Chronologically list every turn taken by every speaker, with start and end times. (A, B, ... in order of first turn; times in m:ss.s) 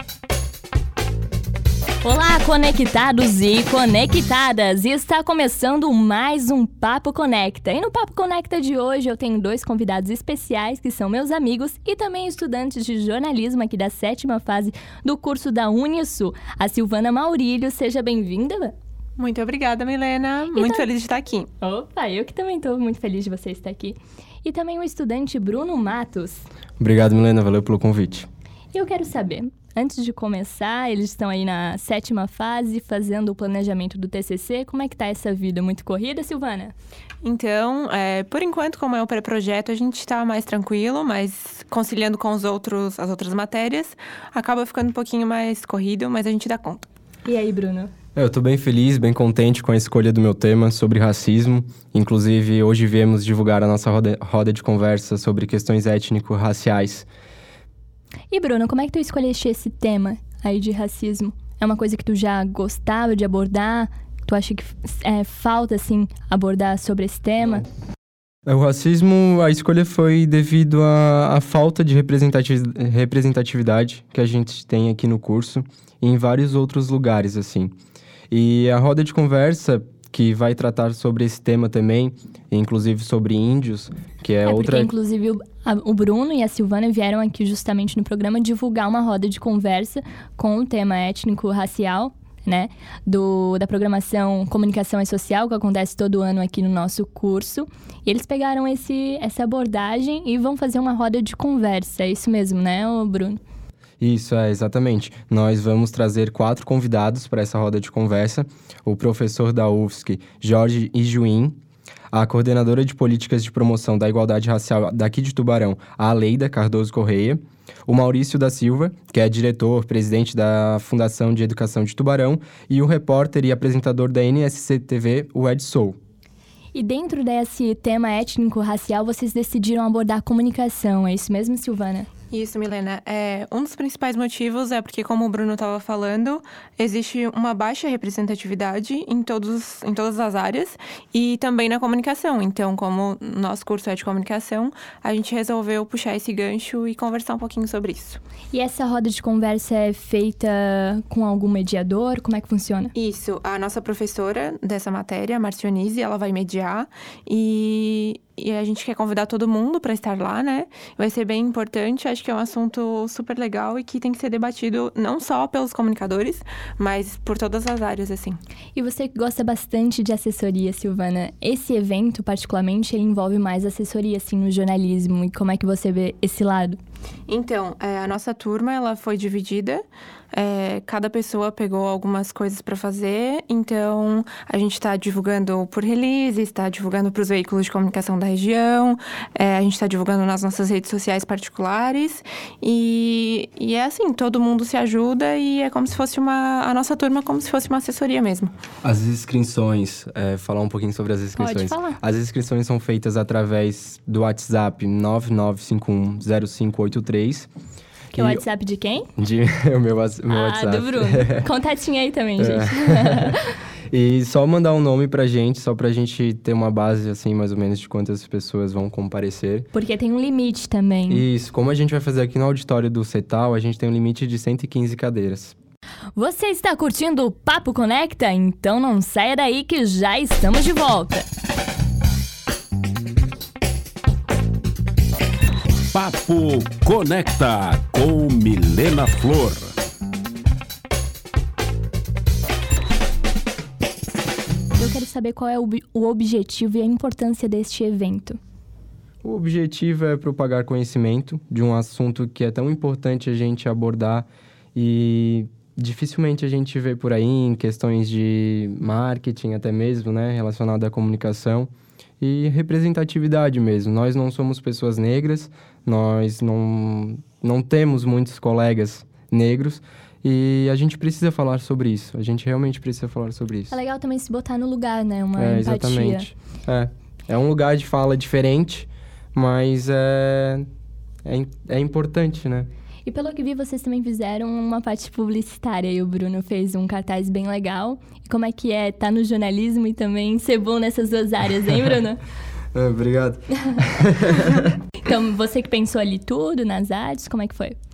0:02.0-0:18.7 A
0:19.2-0:21.5 B
0:20.5-0:20.8 A
0:21.6-0:26.4 A
0:26.8-0:28.3 C
0:28.7-0:36.7 A
0:37.2-0:46.8 B
0:47.2-0:47.9 A
0:48.1-0:57.1 C
0:58.3-1:07.6 A
1:08.4-1:17.7 C
1:18.3-1:24.9 C
1:24.4-1:43.4 A
1:44.0-1:51.6 C
1:52.1-2:06.0 C
2:06.7-2:12.1 A
2:12.3-2:28.2 B
2:28.5-2:32.9 A
2:32.9-2:48.4 B
2:48.7-2:56.8 A
2:57.3-3:18.5 B
3:18.8-3:27.5 C
3:21.4-3:22.0 A
3:28.1-3:28.4 C
3:28.1-3:29.1 A
3:29.2-3:31.5 C
3:30.3-3:33.5 A
3:32.4-3:33.4 C
3:33.9-3:39.7 C
3:39.7-3:41.2 A
3:41.1-3:45.5 C
3:46.1-3:51.3 A
3:55.9-3:59.7 D
4:04.8-4:08.4 A
4:09.2-4:33.7 C
4:33.7-4:36.3 A
4:35.4-4:40.6 C
4:41.2-4:42.7 C
4:43.0-4:52.2 A
4:52.7-4:54.8 C
4:55.0-4:57.8 A